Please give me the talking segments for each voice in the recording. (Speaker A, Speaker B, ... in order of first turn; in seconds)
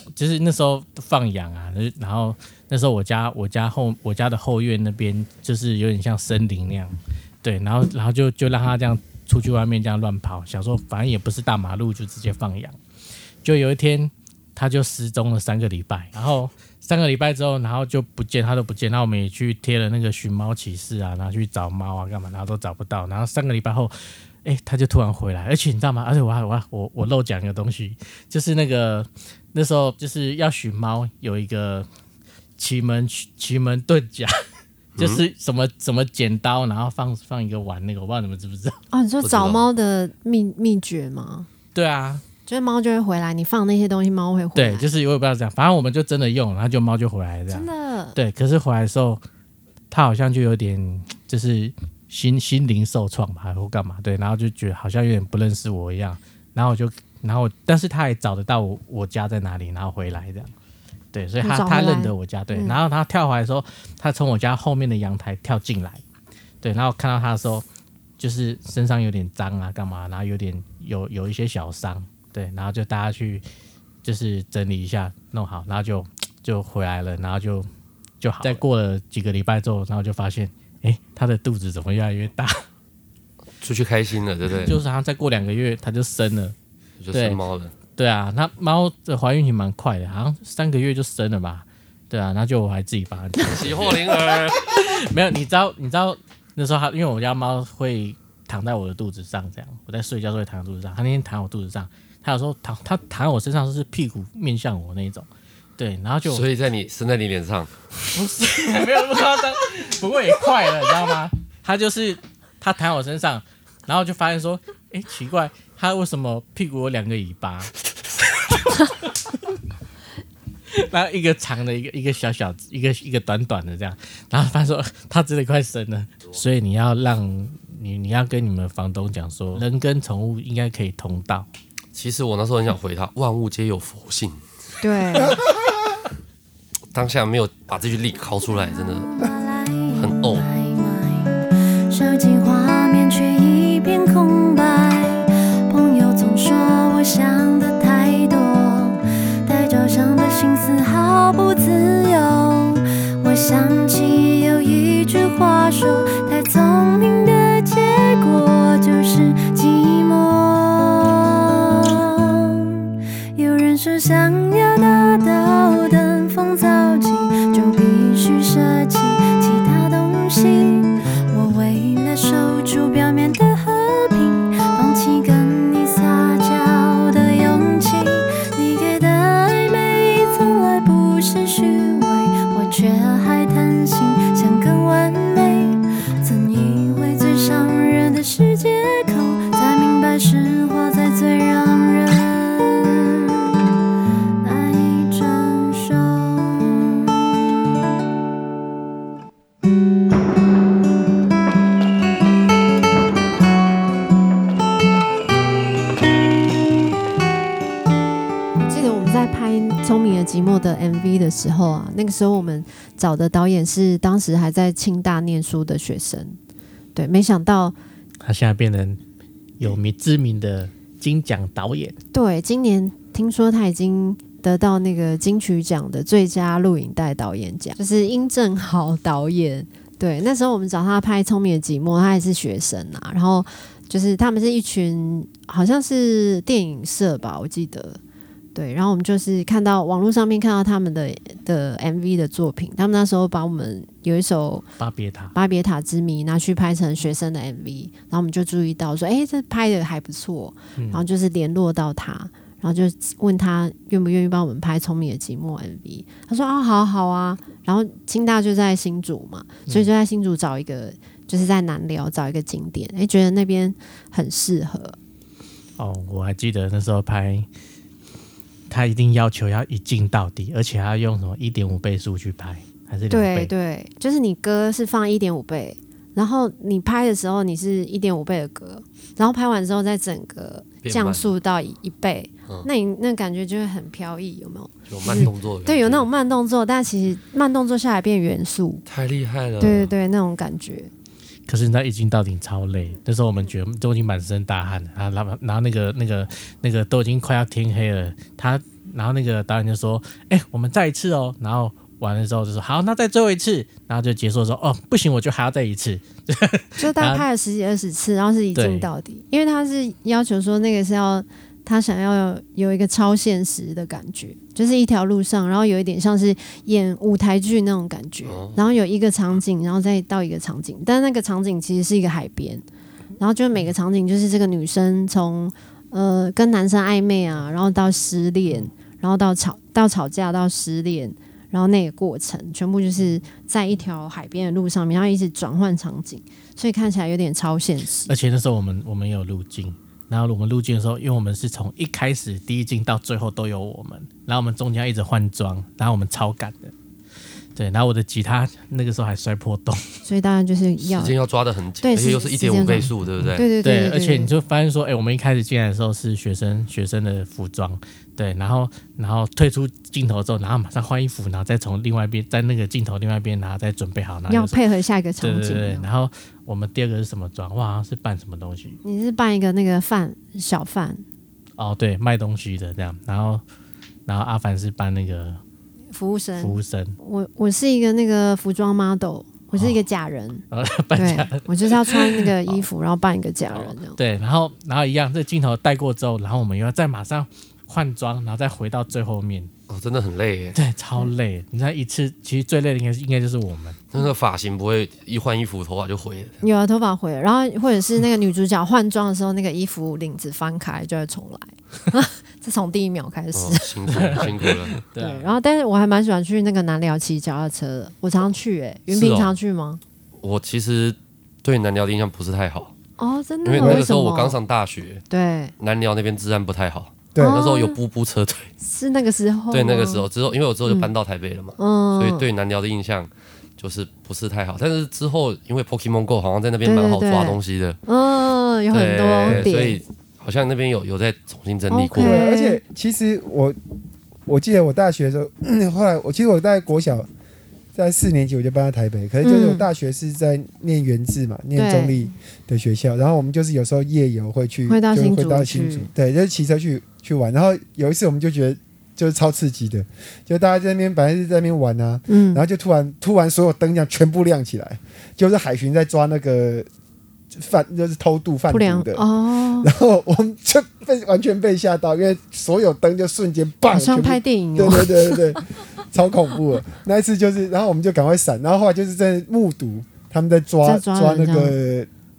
Speaker A: 0.1-12.8, 13.4-31.9, 32.6-34.4, 35.0-38.8, 41.7-42.2, 44.5-49.2, 49.9-60.5, 61.1-66.0, 66.6-67.6, 68.2-73.4, 74.0-77.7, 78.2-82.6, 84.6-86.5, 87.1-105.3, 105.8-106.4, 108.1-117.7, 118.3-119.3, 120.7-131.5, 218.2-219.0, 219.6-222.0, 244.8-245.3, 250.8-251.1, 265.8-267.5, 268.7-273.5, 291.5-307.2, 308.5-308.9, 338.1-346.7, 347.5-350.0, 353.6-364.6, 365.2-368.8, 371.6-373.4, 374.1-375.4, 376.4-376.9, 380.5-382.6, 383.5-389.5, 390.5-393.8, 403.9-405.3
Speaker B: 35.0-35.2, 39.2-39.6, 83.6-84.7, 87.0-87.7, 93.4-94.8, 106.2-107.7, 131.9-134.4, 136.9-139.1, 139.9-140.5, 280.8-281.3, 284.9-286.1, 288.9-289.9, 318.2-318.6, 350.8-353.4, 389.7-390.6, 393.9-396.4, 403.3-404.8, 408.9-409.3, 410.2-412.7, 413.4-415.1, 415.6-418.5, 419.5-427.8, 428.7-432.2
Speaker C: 38.9-41.5, 42.5-44.9, 47.5-48.2, 61.4-62.8, 134.8-135.4, 208.6-216.4, 216.9-217.8, 222.1-238.0, 238.5-244.7, 245.3-264.9, 273.1-288.8, 289.6-290.9, 306.8-322.6, 323.2-338.1, 350.1-351.2, 351.8-354.3, 364.3-365.9, 368.8-371.0, 375.9-380.4, 380.9-384.0, 396.4-404.4, 404.9-409.8, 413.0-414.4, 415.1-415.5, 417.2-417.8, 418.6-420.1, 420.6-420.9, 421.6-422.2, 426.6-429.8, 431.7-432.6, 439.2-439.7, 441.5-442.1, 444.7-445.9, 452.1-452.4, 458.5-459.7, 463.6-465.4, 470.6-471.5
Speaker D: 135.7-136.0, 413.6-413.9, 417.1-417.4, 431.9-433.6, 434.2-437.1, 437.7-456.7, 457.3-459.1, 459.6-471.9
Speaker E: 138.8-193.5, 194.4-197.1